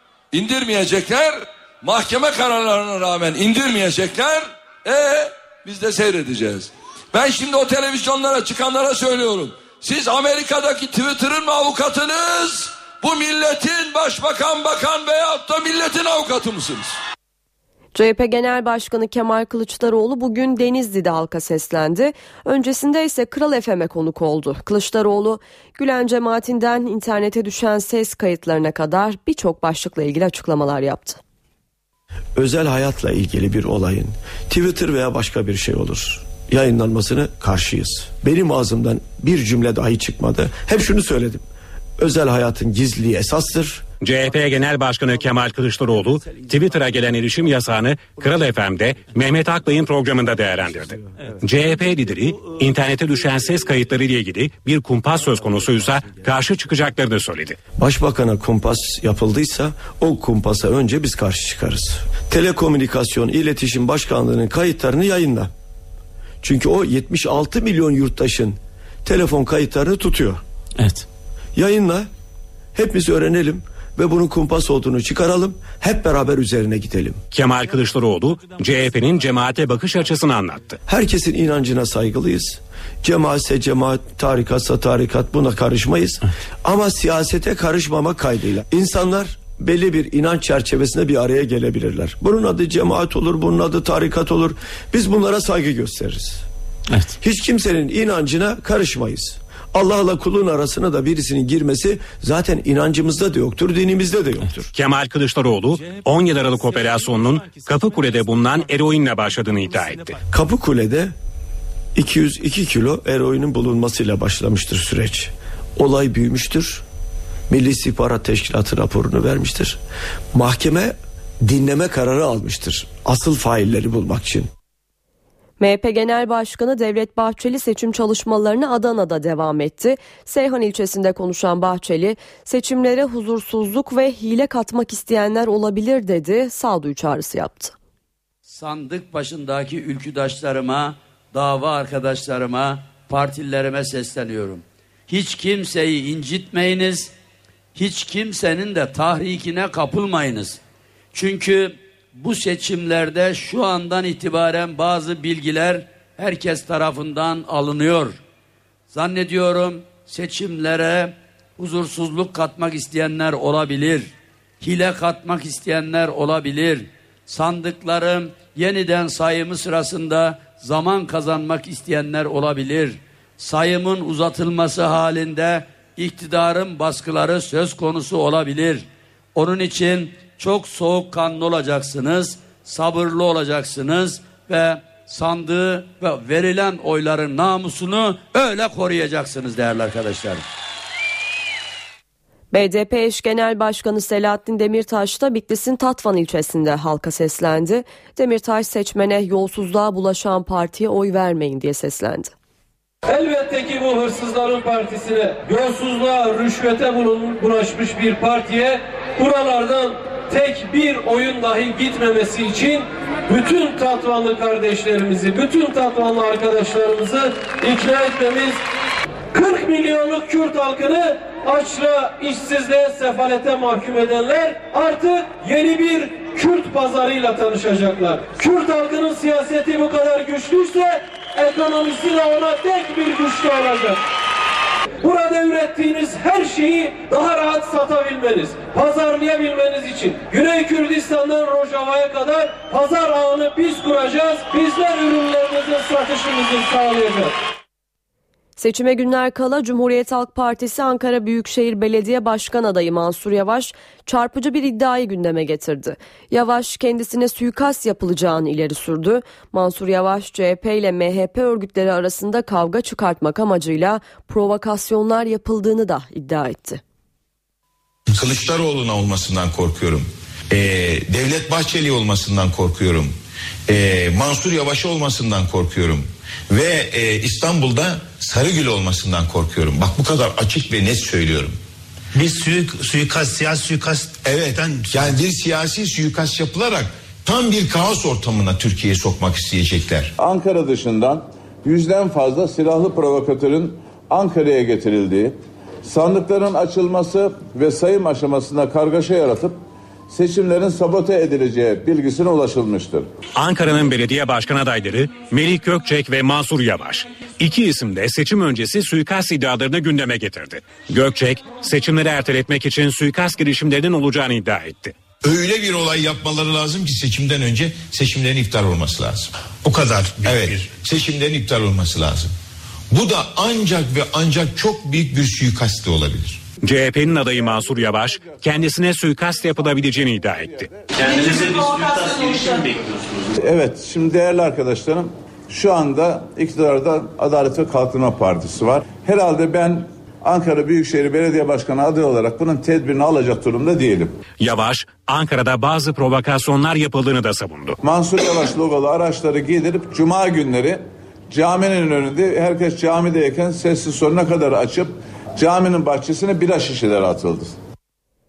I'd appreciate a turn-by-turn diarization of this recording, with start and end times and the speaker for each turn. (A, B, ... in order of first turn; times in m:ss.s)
0:00.3-0:17.0 A
0:17.9-0:31.2 B
0:32.4-0:41.4 C
0:42.0-0:43.8 C
0:44.0-0:57.6 D
0:57.8-1:05.5 C
1:06.4-1:10.4 C
1:11.5-1:12.1 C
1:12.7-1:17.2 C
1:17.3-1:20.8 D
1:20.8-1:36.4 C
1:37.2-1:44.7 C
1:44.7-1:50.2 D
1:50.3-1:51.1 C
1:51.9-1:56.8 C
1:57.5-1:59.8 C
2:00.3-2:04.5 C
2:05.6-2:17.7 B
2:18.4-2:27.1 E
2:27.8-2:30.6 E
2:31.1-2:38.2 E
2:38.9-3:10.4 E
3:12.5-3:22.3 B
3:23.1-3:38.6 F
3:39.3-3:54.0 F
3:55.0-4:07.3 F
4:08.6-4:26.8 B
4:28.1-4:41.6 G
4:42.2-4:44.1 H
4:44.2-4:50.1 G
4:50.2-4:59.6 I
5:00.1-5:03.1 I
5:03.4-5:14.9 D
5:15.2-5:22.3 G
5:22.9-5:26.4 G
5:26.6-5:30.7 D
5:31.0-5:33.2 H
5:33.4-5:44.2 I
5:44.4-5:47.8 D
5:47.8-5:57.5 I